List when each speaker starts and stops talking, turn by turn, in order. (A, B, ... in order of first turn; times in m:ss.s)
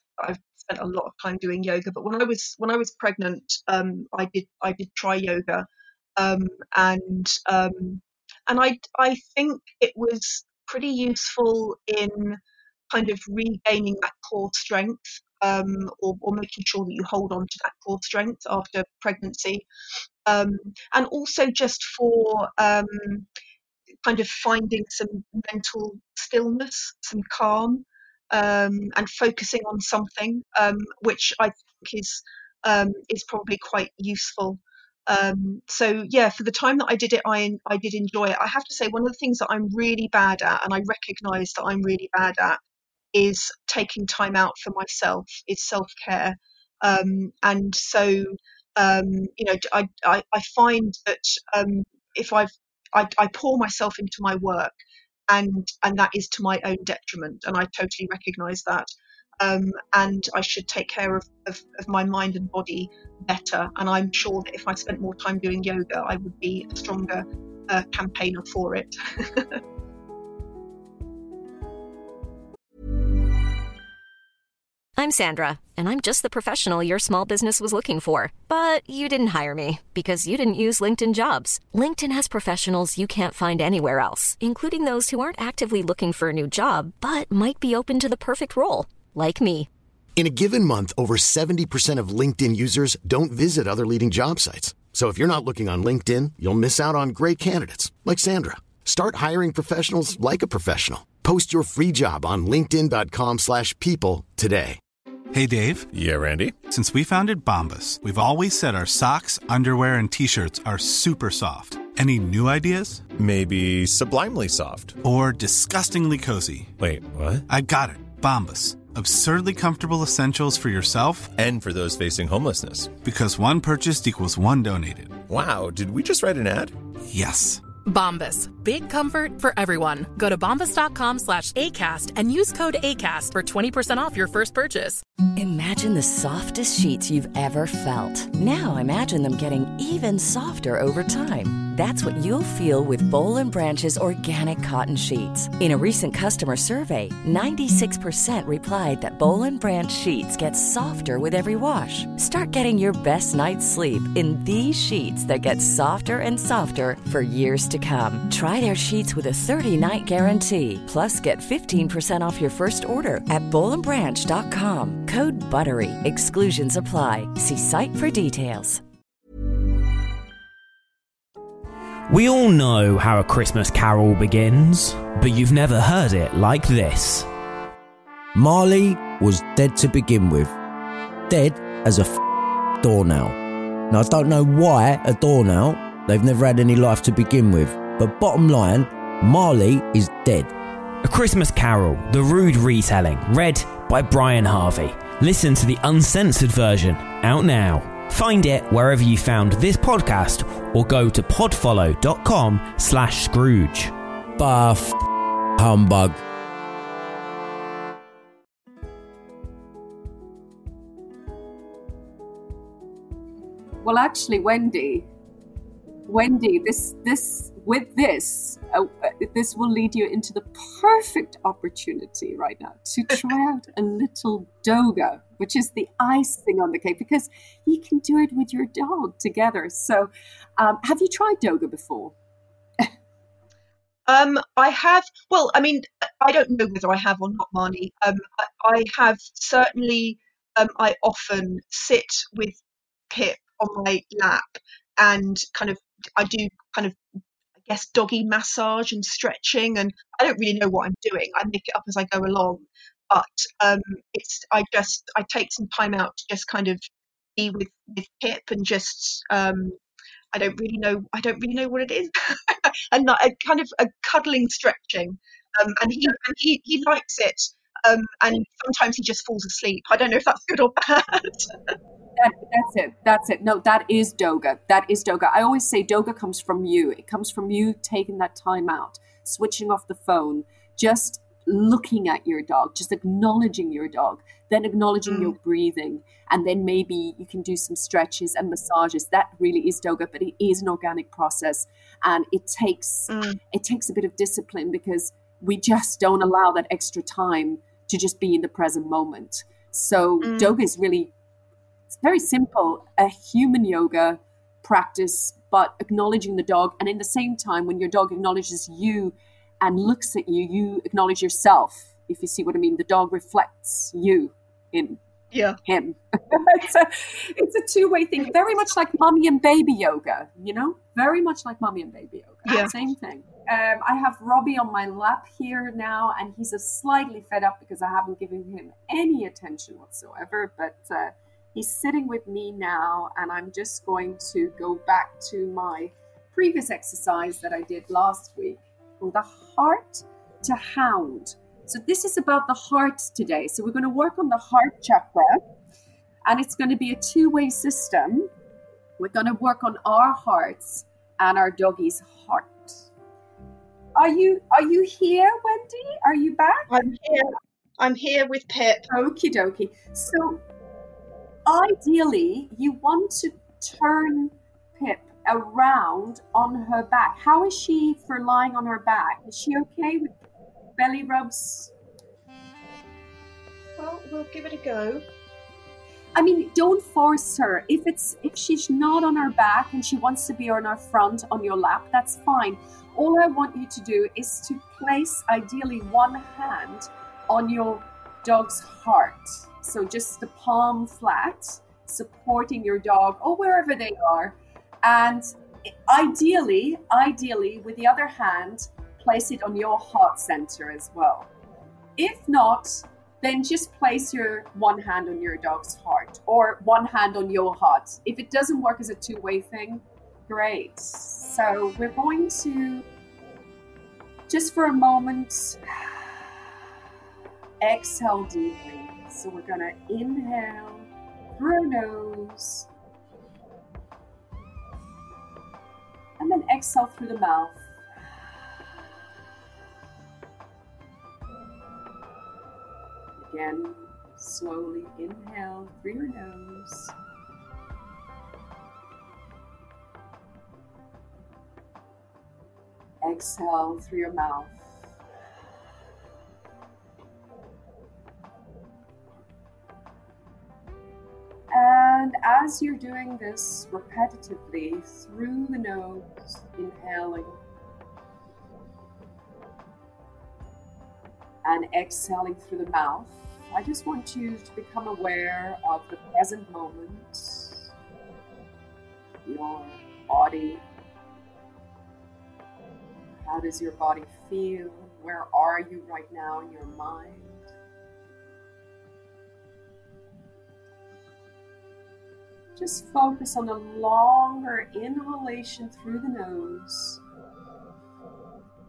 0:00.2-0:19.7 A
0:20.2-0:23.3 A
0:24.0-0:42.6 A
0:43.1-0:54.8 A
0:55.3-0:58.9 A
0:59.4-1:09.6 A
1:15.0-1:29.7 B
1:30.2-1:44.8 C
1:45.3-1:45.9 D
1:45.9-1:46.6 E
1:46.6-1:53.0 D
1:53.2-1:55.0 E
1:55.0-1:56.7 D
1:56.8-1:57.4 E
1:57.5-2:01.3 D
2:01.4-2:03.0 E
2:03.0-2:05.2 D
2:05.3-2:06.7 E
2:07.1-2:07.6 D
2:07.8-2:15.0 F
2:15.4-2:48.8 G
2:52.1-2:57.3 H
2:58.3-3:00.6 I
3:01.3-3:02.2 I
3:02.8-3:03.4 I
3:03.9-3:10.5 I
3:11.0-3:23.9 H
3:24.4-3:24.8 I
3:25.6-3:26.2 I
3:33.8-3:35.1 J
3:36.1-3:52.1 J
3:54.0-4:07.0 A
4:07.6-4:16.8 A
4:17.4-4:19.8 A
4:20.3-4:31.7 A
4:32.2-5:01.1 J
4:45.1-4:45.3 A
4:53.1-4:53.4 A
5:00.2-5:00.6 A
5:01.9-5:15.0 J
5:15.3-5:15.6 A
5:15.6-5:45.4 J
5:22.4-5:22.7 A
5:46.2-5:48.3 J
5:49.0-5:52.9 J
5:53.9-5:56.7 J
5:56.7-5:58.8 A
5:58.9-6:00.4 J
6:01.4-6:10.1 J
6:10.8-6:11.7 J
6:13.8-6:15.0 A
6:16.1-6:41.3 J
6:42.0-6:52.8 J
6:54.3-6:56.3 J
6:57.6-7:02.7 J
7:06.2-7:07.7 J
7:13.2-7:16.9 J
7:23.0-7:24.9 J
7:31.5-7:37.4 J
7:41.4-7:47.6 J
7:49.2-7:50.6 J
7:53.2-7:57.5 J
8:02.6-8:07.0 J